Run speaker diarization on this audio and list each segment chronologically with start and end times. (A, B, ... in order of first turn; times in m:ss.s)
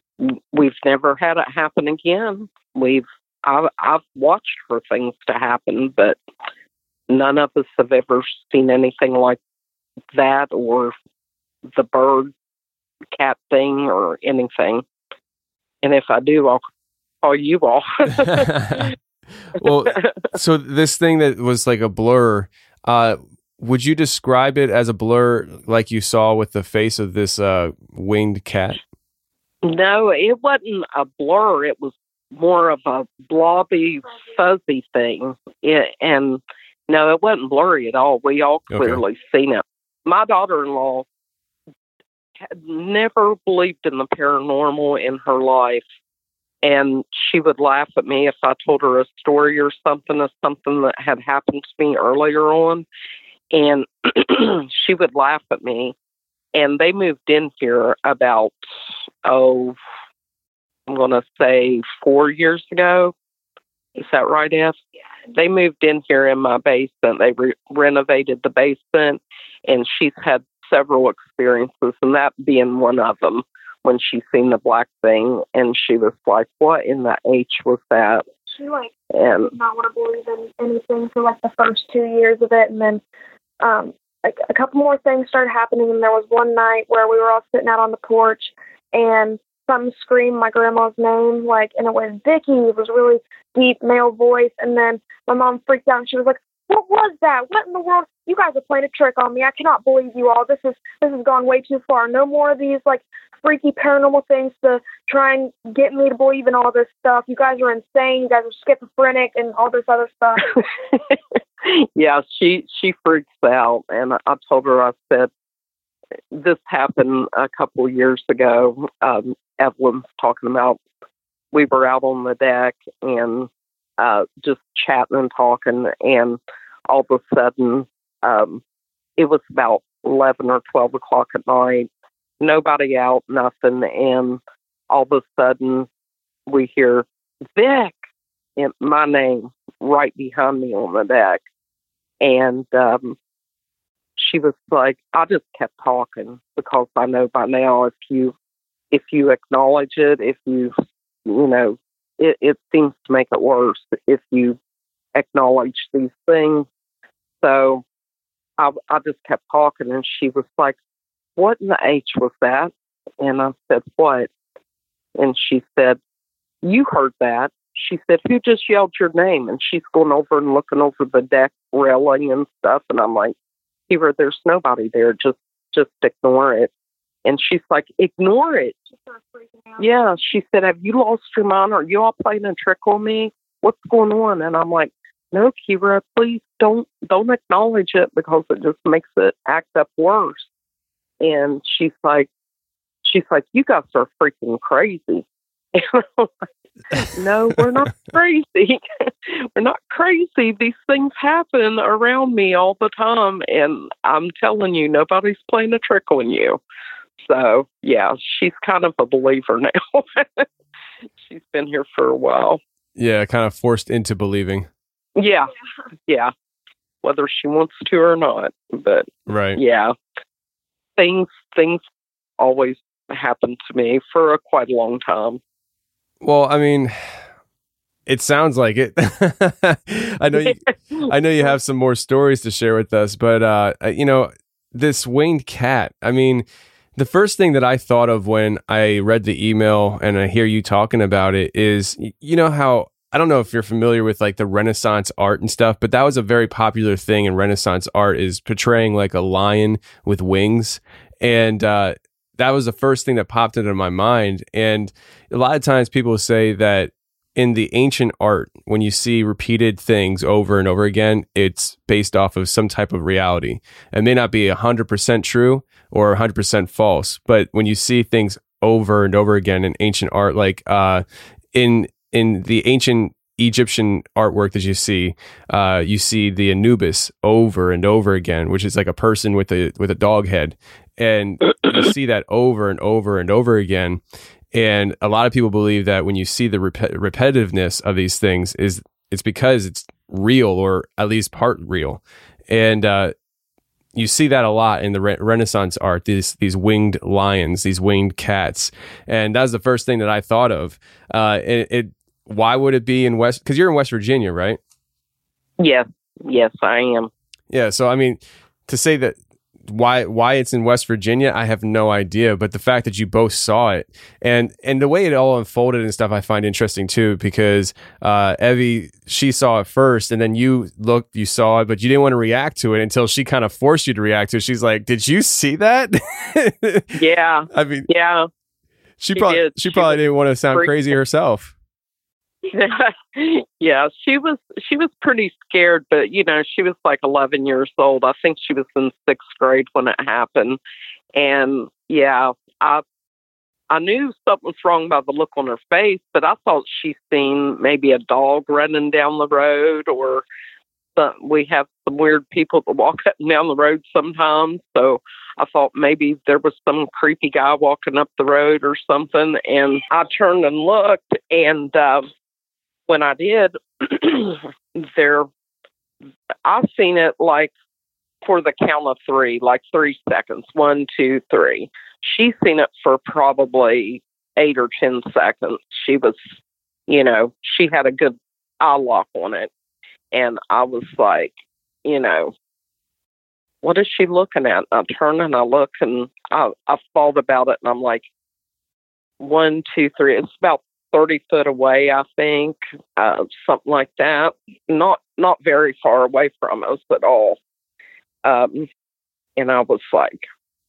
0:00.2-0:06.2 A
0:07.1-0:09.4 A
0:10.1-0:10.9 A
0:11.7-0:12.3 A
0:13.2-0:14.8 A
0:15.8-0:16.6 A
0:17.2-0:18.9 A
0:18.2-0:18.9 B
0:19.6-0:28.8 B
0:19.6-0:20.3 A
0:29.6-0:41.1 A
0:38.7-0:39.0 B
0:42.4-0:45.8 A
0:46.6-0:52.9 A
0:53.5-0:56.0 A
0:56.6-0:58.5 A
0:59.2-0:59.8 A
1:00.9-1:03.1 A
1:04.0-1:04.8 A
1:05.3-1:18.2 A
1:18.5-1:19.0 C
1:19.1-1:19.5 A
1:19.5-1:23.0 C
1:23.6-1:50.7 C
1:50.6-1:51.1 A
1:51.6-1:55.3 A
1:56.3-2:00.8 A
2:01.5-2:08.6 A
2:09.2-2:11.9 A
2:12.4-2:15.9 A
2:16.5-2:17.0 A
2:17.6-2:18.0 A
2:18.6-2:21.4 A
2:22.2-2:23.2 A
2:24.2-2:28.3 A
2:28.9-2:30.7 A
2:31.3-2:34.6 A
2:35.2-2:36.7 A
2:37.4-2:37.8 A
2:38.6-2:40.8 A
2:41.4-2:44.3 A
2:45.2-2:46.0 A
2:46.6-2:53.3 A
2:53.9-2:56.7 A
2:57.2-2:58.7 A
2:58.9-2:59.8 C
2:59.8-3:10.5 A
3:11.2-3:12.3 A
3:13.0-3:16.3 A
3:17.0-3:26.6 A
3:27.2-3:30.5 A
3:31.3-3:32.6 A
3:33.0-3:34.7 B
3:35.2-3:35.5 A
3:36.1-3:36.3 A
3:37.0-3:39.9 A
3:39.3-3:39.6 B
3:41.0-3:41.8 A
3:42.4-3:45.4 A
3:46.2-3:47.2 B
3:48.1-3:56.4 B
3:50.4-3:51.1 A
3:57.0-4:44.0 B
4:44.5-4:53.1 B
4:54.0-5:04.6 B
5:05.6-5:07.1 A
5:07.5-5:27.0 B
5:27.0-5:28.3 A
5:27.5-5:27.9 B
5:29.0-5:31.5 B
5:29.2-5:30.0 A
5:32.5-5:40.6 A
5:41.2-5:42.8 A
5:43.7-5:50.2 A
5:51.0-6:02.1 A
6:02.9-6:05.3 A
6:06.4-6:07.5 A
6:08.2-6:16.2 A
6:16.9-6:19.5 A
6:20.1-6:21.3 A
6:21.8-6:22.3 A
6:23.6-6:28.1 A
6:29.2-6:37.4 A
6:38.2-6:38.7 A
6:39.4-6:40.2 A